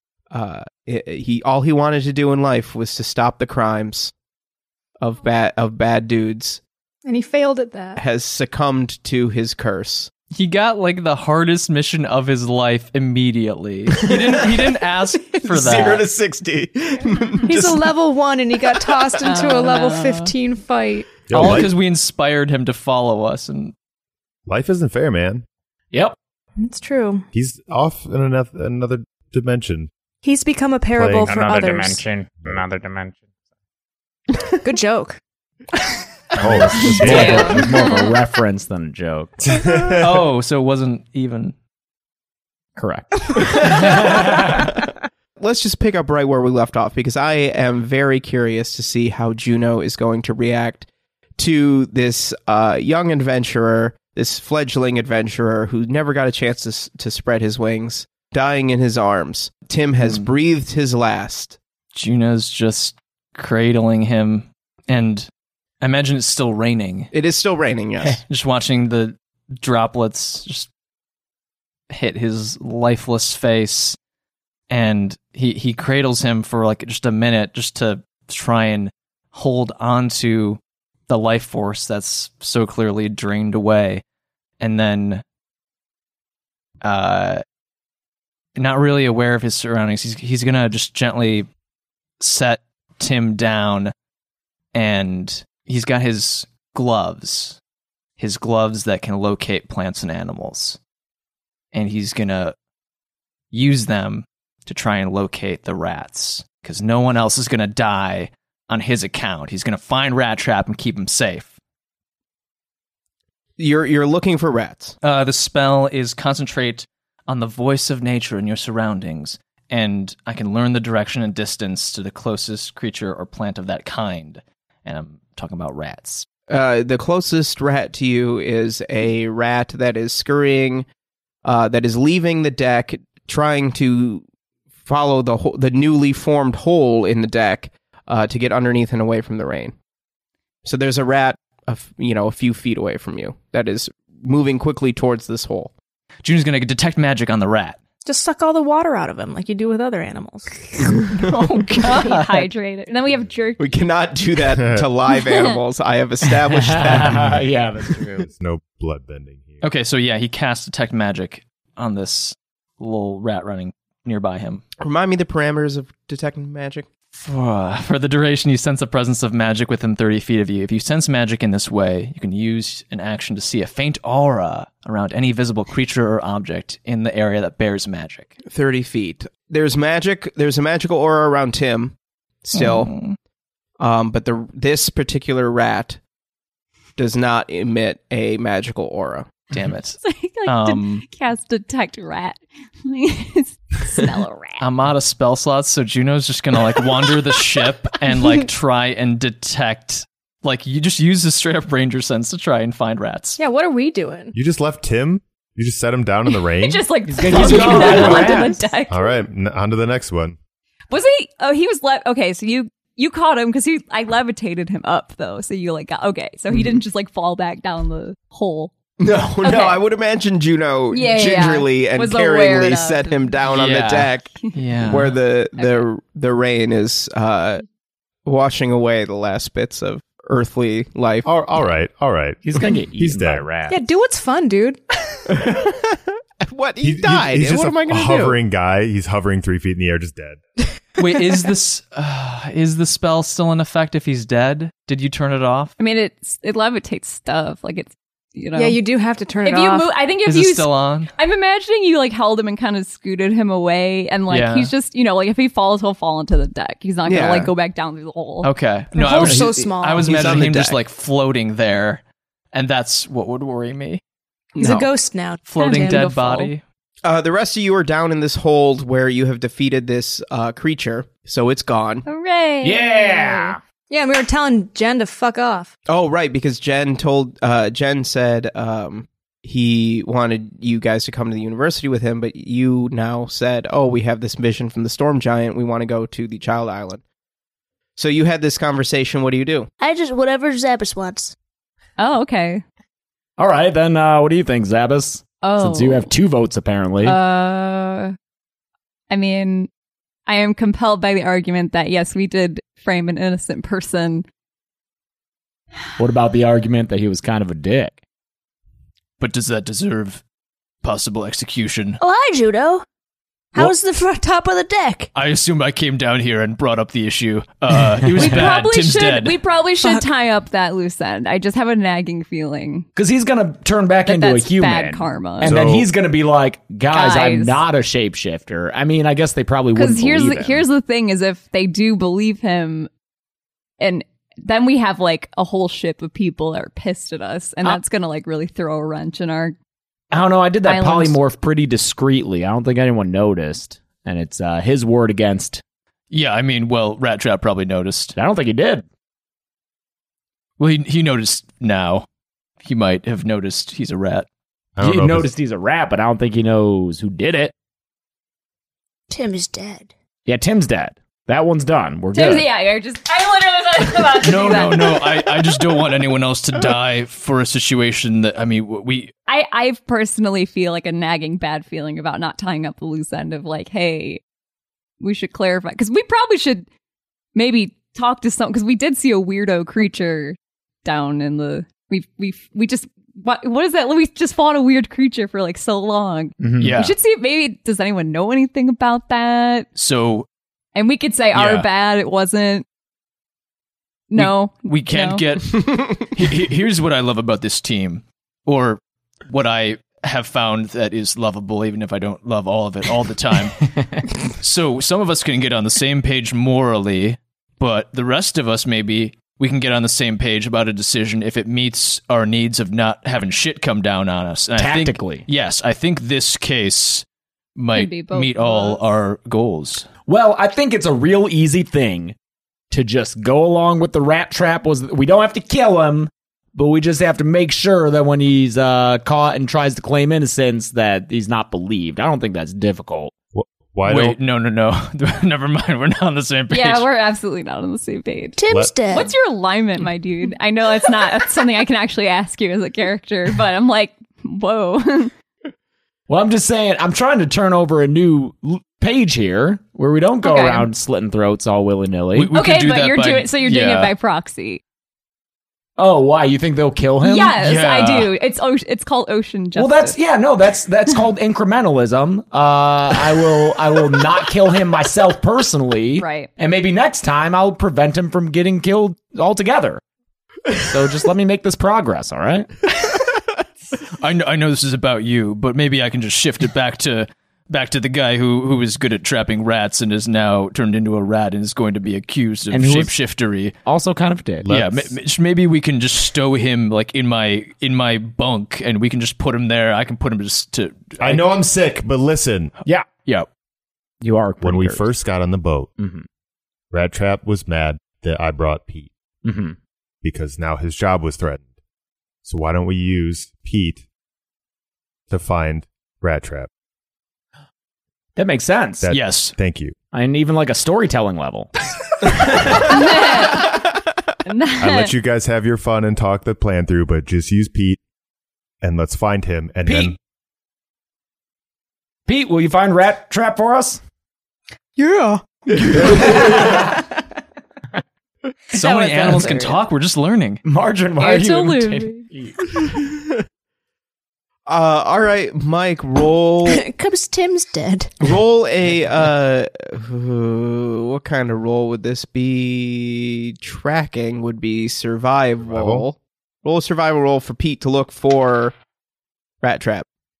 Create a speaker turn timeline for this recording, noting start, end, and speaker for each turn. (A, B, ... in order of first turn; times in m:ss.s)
0:00.3-0:04.1 A
0:05.0-0:06.6 A
0:07.0-0:08.0 B
0:08.0-0:10.1 A
0:10.3-0:16.1 C
0:15.4-0:17.8 A
0:17.4-0:21.1 B
0:19.2-0:20.3 D
0:21.3-0:21.7 E
0:21.3-0:23.7 C
0:24.5-0:25.4 E
0:26.6-0:27.2 B
0:27.3-0:29.9 E
0:30.2-0:32.0 B
0:30.9-0:31.4 E
0:31.3-0:33.2 F
0:34.6-0:35.2 B
0:36.4-0:39.6 F
0:36.4-0:37.7 E
0:37.0-0:38.2 D
0:39.4-0:40.2 E
0:40.0-0:41.6 C
0:42.8-0:44.8 F
0:43.6-0:44.0 A
0:45.4-0:50.9 A
0:51.4-1:01.6 A
1:00.0-1:00.3 C
1:01.9-1:05.3 C
1:05.8-1:07.1 C
1:07.1-1:08.2 A
1:08.0-1:10.7 C
1:11.9-1:14.0 C
1:14.7-1:24.0 C
1:24.6-1:25.2 C
1:26.8-1:27.4 C
1:28.6-1:31.5 C
1:32.2-1:33.9 C
1:34.7-1:37.6 C
1:38.2-1:40.8 C
1:41.7-1:42.6 C
1:43.5-1:51.6 C
1:53.6-1:55.0 A
1:55.0-2:06.3 C
2:06.5-2:10.9 A
2:11.4-2:14.2 A
2:14.8-2:19.7 A
2:20.6-2:25.7 A
2:26.2-2:27.8 C
2:28.0-2:30.6 B
2:31.2-2:33.8 D
2:33.6-2:37.3 A
2:34.6-2:34.9 E
2:35.2-2:35.6 D
2:36.5-2:38.3 F
2:37.0-2:37.4 E
2:38.2-2:39.6 E
2:39.6-2:44.6 C
2:44.8-2:46.9 A
2:47.1-2:58.4 C
2:58.5-3:02.9 A
3:02.5-3:03.2 C
3:03.8-3:06.0 A
3:07.0-3:09.3 A
3:09.5-3:11.1 C
3:10.0-3:14.7 D
3:14.6-3:23.4 C
3:23.4-3:24.4 B
3:24.3-3:26.9 E
3:26.3-3:29.2 D
3:27.1-3:28.6 F
3:27.8-3:28.3 E
3:28.9-3:30.4 E
3:30.9-3:38.7 D
3:39.0-3:47.6 A
3:39.4-3:39.8 D
3:40.9-3:43.4 D
3:43.5-3:45.2 C
3:45.6-3:45.9 D
3:48.3-3:51.3 A
3:51.2-3:53.5 E
3:52.4-3:53.8 F
3:53.7-3:54.8 B
3:55.3-3:58.4 A
3:56.8-4:00.4 E
4:01.0-4:05.8 C
4:05.8-4:08.8 D
4:08.6-4:09.9 B
4:09.4-4:18.5 D
4:10.3-4:11.1 C
4:14.3-4:14.7 C
4:17.0-4:17.5 A
4:18.4-4:24.0 C
4:19.0-4:20.2 B
4:19.2-4:20.8 A
4:24.6-4:24.9 A
4:24.6-4:26.1 B
4:25.5-4:26.6 C
4:25.6-4:26.5 D
4:27.0-4:32.0 A
4:32.0-4:33.6 D
4:32.6-4:33.6 F
4:33.9-4:35.7 B
4:35.9-4:47.0 A
4:48.0-4:49.7 A
4:49.8-4:51.3 G
4:52.0-4:52.6 D
4:53.4-4:57.2 F
4:55.4-4:56.1 D
4:57.0-4:58.1 D
4:59.1-4:59.7 D
5:00.3-5:04.2 D
5:06.0-5:08.0 F
5:09.2-5:10.2 C
5:10.8-5:12.0 C
5:12.0-5:12.8 G
5:13.5-5:15.1 G
5:15.2-5:19.4 C
5:18.2-5:22.9 D
5:23.0-5:30.6 F
5:24.0-5:25.6 D
5:25.4-5:25.9 E
5:26.9-5:27.6 D
5:29.8-5:32.9 D
5:33.8-5:39.6 D
5:40.1-5:45.6 F
5:40.6-5:41.2 D
5:46.1-5:48.2 C
5:48.2-5:48.8 F
5:50.6-5:52.1 C
5:52.6-5:54.3 C
5:54.8-5:55.3 E
5:54.8-5:57.5 F
5:59.1-5:59.9 G
6:00.3-6:02.5 F
6:02.1-6:05.2 D
6:04.2-6:09.1 C
6:09.3-6:14.2 D
6:15.0-6:16.7 D
6:17.4-6:29.7 D
6:26.4-6:26.7 F
6:26.6-6:26.9 C
6:29.8-6:30.3 C
6:30.8-6:32.6 D
6:31.3-6:31.7 C
6:34.1-6:35.3 D
6:34.2-6:57.0 C
6:54.6-6:55.2 F
6:57.6-6:59.9 C
6:57.7-6:58.8 D
7:00.1-7:02.2 F
7:02.7-7:13.2 F
7:13.3-7:14.2 E
7:13.9-7:16.9 C
7:16.5-7:25.1 D
7:18.4-7:19.1 G
7:18.5-7:19.0 E
7:26.1-7:32.3 F
7:30.2-7:30.7 D
7:32.1-7:33.9 C
7:32.3-7:34.6 D
7:35.8-7:37.4 F
7:37.0-7:40.0 D
7:37.4-7:38.1 C
7:39.6-7:49.8 F
7:46.0-7:46.3 D
7:50.6-7:52.5 F
7:54.0-8:03.6 C
8:02.5-8:02.9 F
8:03.6-8:04.5 F
8:04.4-8:05.0 E
8:04.5-8:11.2 C
8:11.0-8:12.6 E
8:12.6-8:13.1 F
8:14.0-8:14.9 F
8:14.4-8:15.7 E
8:15.8-8:16.1 F
8:16.7-8:18.9 E
8:19.2-8:19.6 F
8:20.0-8:21.5 E
8:22.2-8:23.8 E
8:25.1-8:26.5 E
8:28.2-8:28.9 F
8:28.8-8:29.8 E
8:28.9-8:29.4 C
8:29.9-8:31.5 F
8:32.1-8:32.8 F
8:32.7-8:33.7 D
8:34.2-8:34.9 D
8:34.6-8:37.8 E
8:38.6-8:40.0 E
8:39.6-8:40.0 F
8:42.1-8:43.8 F
8:44.8-8:45.2 B
8:45.7-8:46.2 A
8:45.7-8:46.9 F
8:48.5-8:50.4 C
8:50.4-8:52.4 F
8:51.0-8:52.1 D
8:54.5-8:56.6 A
8:56.5-8:57.9 G
8:58.0-9:08.5 A
9:05.4-9:05.9 E
9:09.4-9:09.9 A